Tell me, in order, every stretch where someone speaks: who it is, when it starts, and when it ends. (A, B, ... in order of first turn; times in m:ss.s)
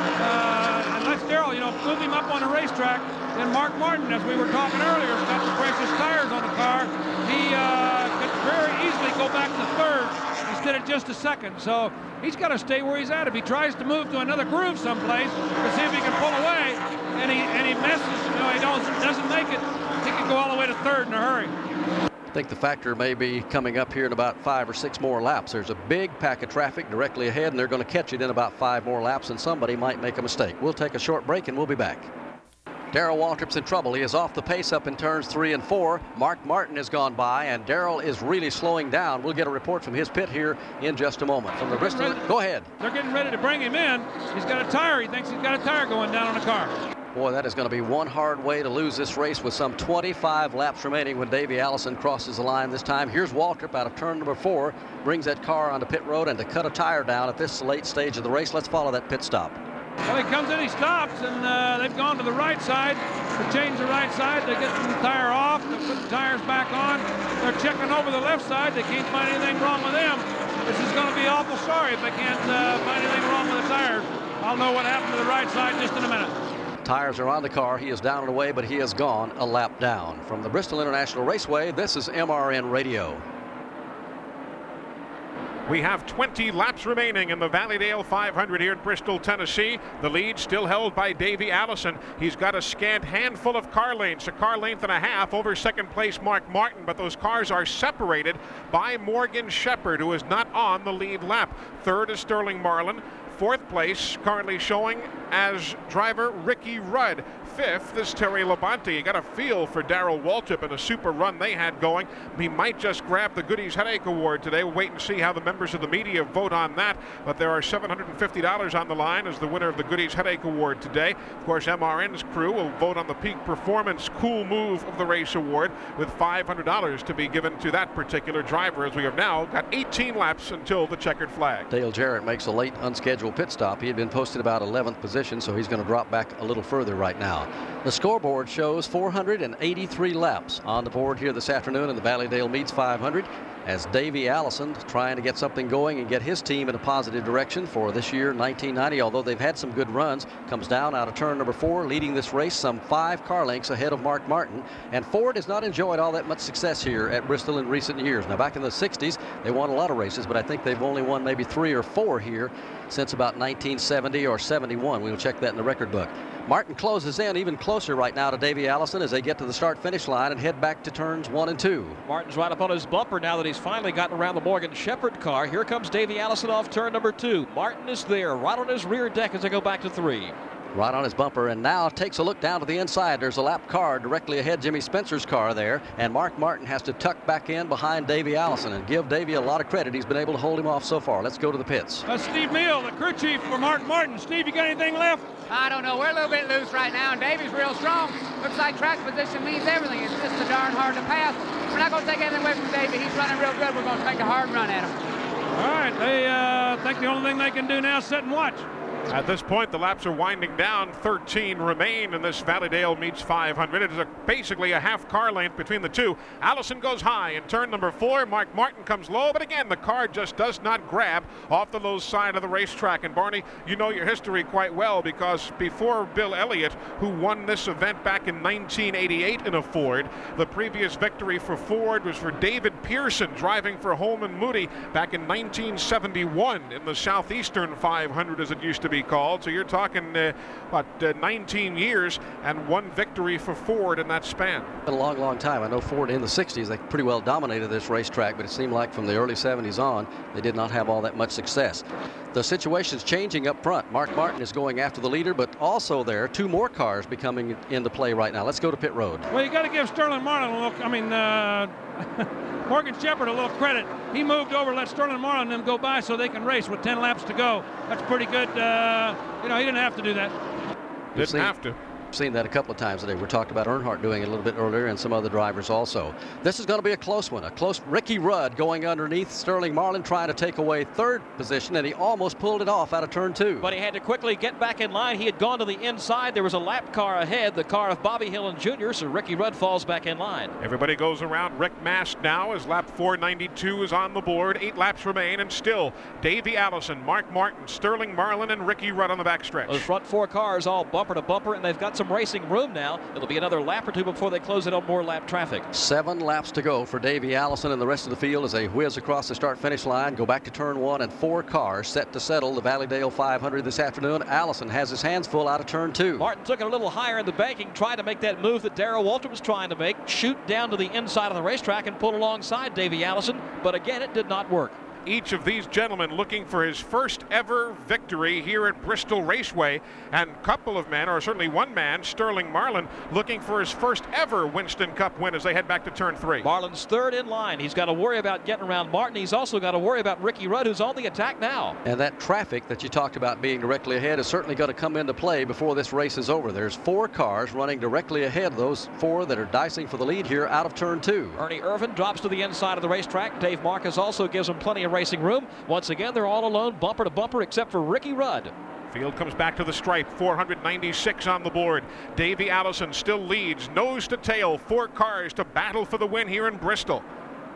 0:00.2-0:21.5 A
0:22.3-0:32.1 B
0:32.9-0:42.7 B
0:41.7-0:42.2 A
0:42.8-0:46.7 A
0:47.1-0:59.6 B
1:00.0-1:16.3 A
1:16.8-1:23.2 B
1:25.7-2:11.7 C
2:11.7-2:52.0 B
2:52.0-3:00.3 D
3:00.7-3:12.0 B
3:12.1-3:15.4 A
3:15.5-3:25.0 E
3:25.5-3:28.7 A
3:29.1-4:04.7 C
4:04.8-4:19.3 B
4:19.3-4:30.3 A
4:31.1-4:31.5 B
4:31.2-4:31.8 C
4:32.1-4:43.7 B
4:43.6-4:50.5 D
4:50.6-4:59.8 C
4:59.7-5:05.6 D
5:05.7-5:16.3 B
5:16.2-5:24.8 D
5:25.0-5:36.5 C
5:36.4-5:41.8 D
5:41.8-5:51.4 B
5:51.4-5:58.5 D
5:58.9-6:07.1 C